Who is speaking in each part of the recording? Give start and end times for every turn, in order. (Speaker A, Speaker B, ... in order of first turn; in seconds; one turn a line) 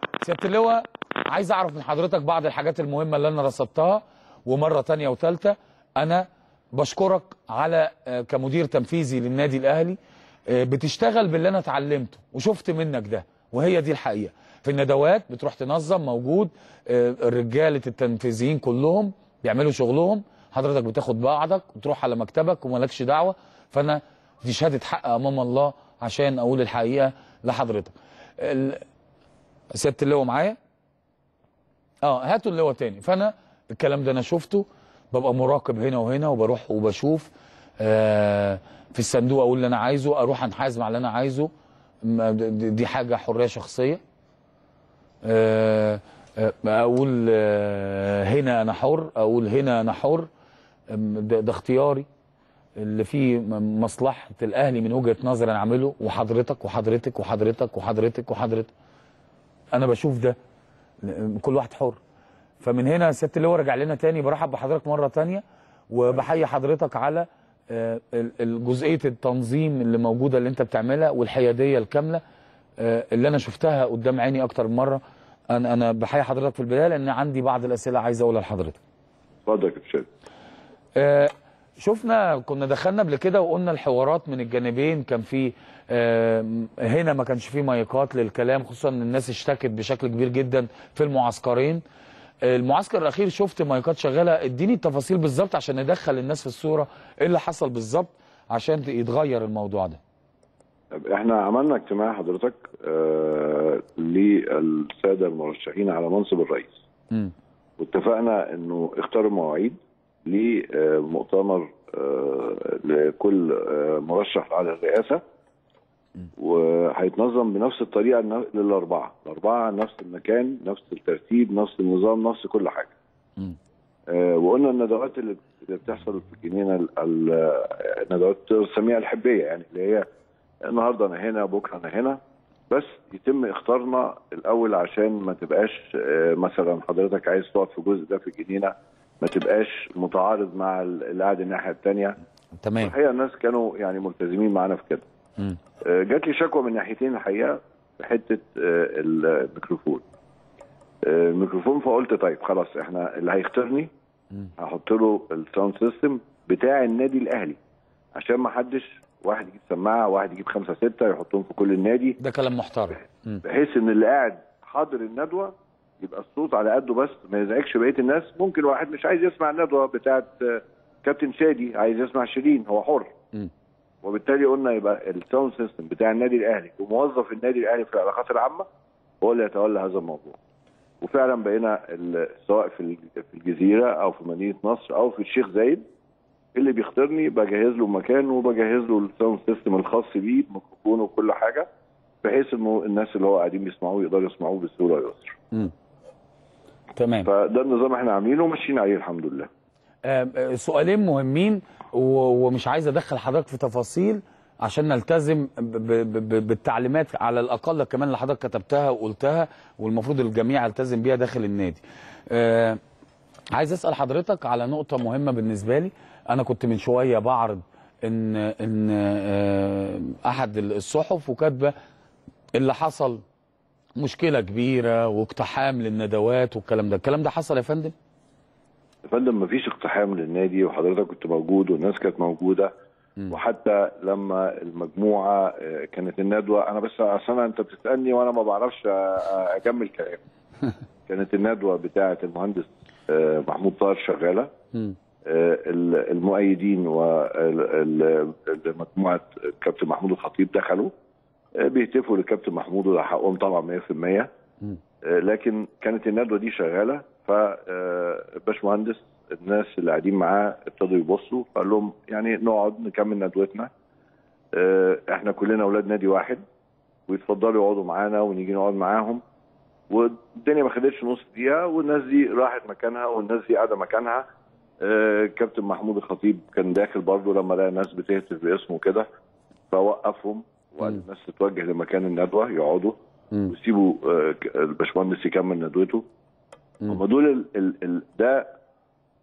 Speaker A: 0.2-10.0
Speaker A: 10.5-28.8
Speaker A: 29.7-30.6
Speaker A: 32.0-41.5
Speaker A: 42.0-44.0
Speaker A: 45.2-50.3
Speaker A: 50.9-52.1
Speaker A: 52.8-58.7
Speaker A: 59.7-60.4
Speaker A: 61.0-62.0
Speaker A: 62.6-72.2
Speaker A: 72.8-75.0
Speaker A: 75.5-78.8
Speaker B: 79.5-80.1
Speaker A: 81.0-91.8
Speaker A: 92.5-100.0
Speaker B: 100.9-106.8
Speaker B: 107.8-115.2
Speaker B: 116.4-123.0
Speaker B: 124.1-130.1
Speaker B: 130.7-142.2
Speaker A: 142.6-142.9
Speaker B: 142.8-145.1
Speaker B: 145.8-150.0
Speaker B: 151.0-153.9
Speaker B: 154.6-157.6
Speaker B: 158.2-162.2
Speaker A: 162.2-163.4
Speaker B: 163.4-173.1
Speaker B: 174.0-178.7
Speaker B: 179.2-180.4
Speaker B: 181.0-185.8
Speaker B: 186.6-191.7
Speaker B: 192.2-195.4
Speaker A: 197.0-197.3
Speaker B: 197.2-199.5
Speaker A: 200.1-212.8
Speaker A: 213.5-221.7
Speaker A: 222.6-223.2
Speaker A: 224.0-227.9
Speaker B: 229.1-232.7
Speaker B: 233.3-240.2
Speaker B: 241.1-244.5
Speaker B: 245.2-250.9
Speaker B: 251.6-254.3
Speaker B: 255.0-263.7
Speaker B: 264.6-266.4
Speaker B: 267.1-269.2
Speaker B: 269.9-274.3
Speaker B: 274.8-279.1
Speaker B: 279.7-282.9
Speaker B: 283.5-286.0
Speaker B: 286.9-288.5